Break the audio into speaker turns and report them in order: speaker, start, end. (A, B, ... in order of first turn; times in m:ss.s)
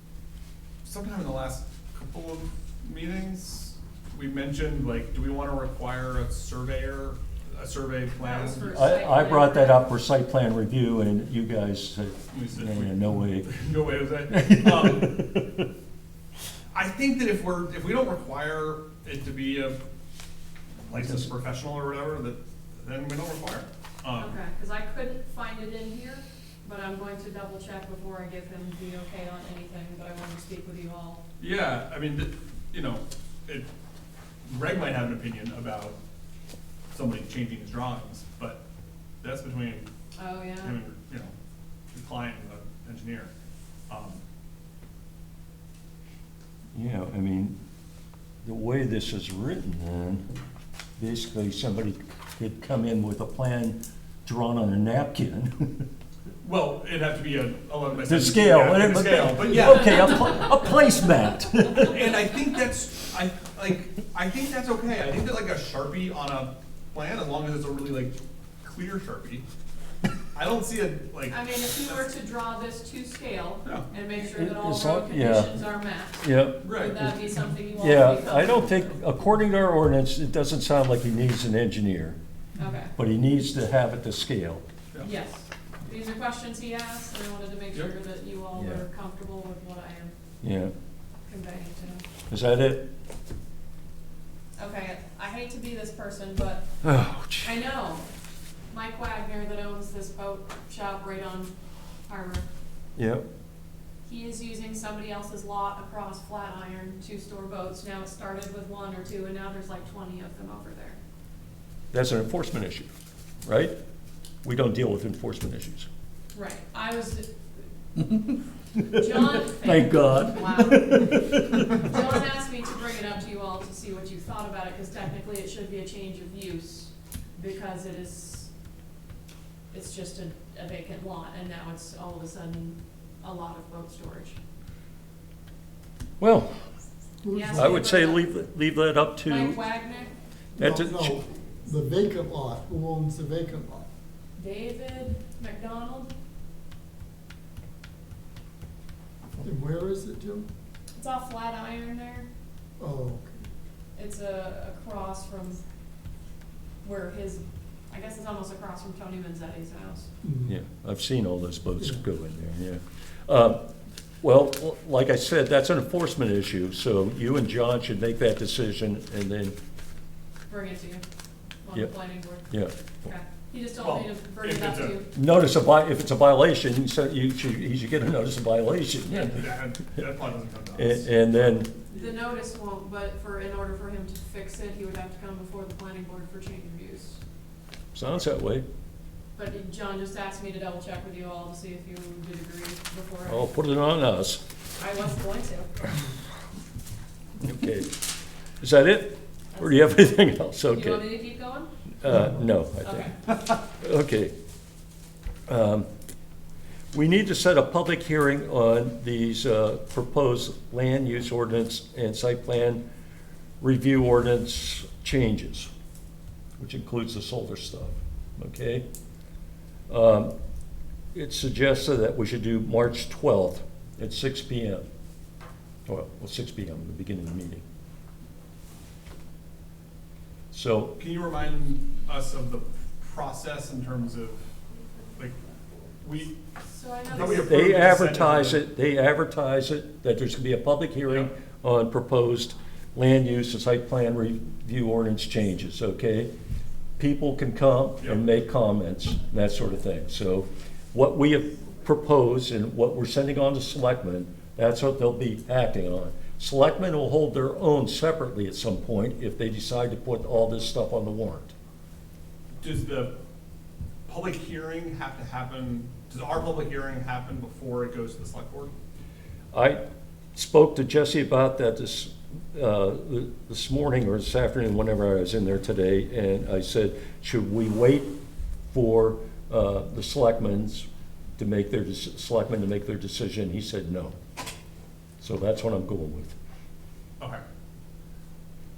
0:00.8-0:08.6 A
0:08.2-0:09.9 B
0:08.6-0:13.6 C
0:12.3-0:15.2 A
0:14.3-0:15.6 C
0:16.7-0:19.8 A
0:20.9-0:24.4 A
0:24.2-0:31.2 B
0:31.4-0:33.7 A
0:34.4-0:36.0 A
0:36.9-0:38.6 A
0:39.2-0:39.9 A
0:40.2-0:40.8 B
0:40.6-0:41.3 A
0:41.9-0:43.3 A
0:43.9-0:44.2 A
0:46.7-0:47.6 C
0:48.4-0:50.2 C
0:51.0-0:55.7 C
0:56.4-1:00.3 A
0:58.1-1:02.1 C
1:01.8-1:09.4 A
1:10.4-1:12.0 A
1:11.3-1:19.0 B
1:13.6-1:13.9 A
1:14.2-1:15.6 C
1:16.2-1:17.1 C
1:16.6-1:17.0 A
1:17.8-1:22.2 C
1:22.6-1:22.9 B
1:23.0-1:24.6 C
1:25.0-1:30.2 B
1:28.6-1:28.8 C
1:30.4-1:30.7 C
1:31.3-1:32.0 B
1:32.3-1:32.9 C
1:34.6-1:36.7 B
1:36.8-1:37.5 C
1:37.4-1:38.1 B
1:38.7-1:41.6 B
1:42.1-1:42.5 B
1:43.0-1:43.2 C
1:44.0-1:51.0 B
1:51.9-1:52.9 C
1:53.4-1:53.7 C
1:54.4-1:55.9 C
1:56.3-1:57.4 B
1:58.8-2:02.0 C
1:58.9-2:08.5 B
2:09.7-2:14.4 B
2:16.2-2:16.5 C
2:17.2-2:17.8 D
2:17.3-2:18.3 B
2:17.5-2:19.6 C
2:19.2-2:20.1 B
2:20.6-2:23.9 D
2:20.6-2:21.2 C
2:24.4-2:26.1 B
2:29.4-2:30.5 D
2:31.0-2:32.3 B
2:32.8-2:33.5 D
2:34.0-2:35.6 B
2:36.8-2:40.1 B
2:40.2-2:40.5 D
2:40.5-2:43.6 C
2:44.2-2:49.6 C
2:50.5-2:51.0 B
2:51.6-2:52.5 B
2:52.5-2:52.7 C
2:53.0-2:55.1 B
2:53.8-2:55.0 A
2:55.1-2:59.7 C
2:59.1-3:01.1 A
3:00.8-3:01.7 C
3:01.9-3:07.2 B
3:07.9-3:08.6 C
3:09.4-3:13.4 B
3:13.3-3:14.4 C
3:14.8-3:16.0 B
3:17.4-3:17.9 C
3:18.6-3:21.1 C
3:19.5-3:20.0 B
3:20.7-3:21.7 B
3:22.0-3:24.3 C
3:22.8-3:23.2 B
3:25.5-3:25.9 C
3:26.9-3:32.8 C
3:33.6-3:35.7 C
3:36.6-3:38.8 C
3:39.9-3:40.3 C
3:41.1-3:44.9 C
3:45.9-3:47.6 C
3:50.5-3:51.0 C
3:51.0-3:54.5 A
3:56.0-3:56.4 A
3:56.7-3:57.5 B
3:57.1-3:58.6 A
3:57.2-4:06.3 C
4:01.1-4:01.3 A
4:07.0-4:21.5 C
4:22.6-4:23.1 A
4:24.1-4:28.7 A
4:29.5-4:29.8 C
4:30.4-4:38.1 C
4:38.7-4:44.2 C
4:45.2-4:46.4 C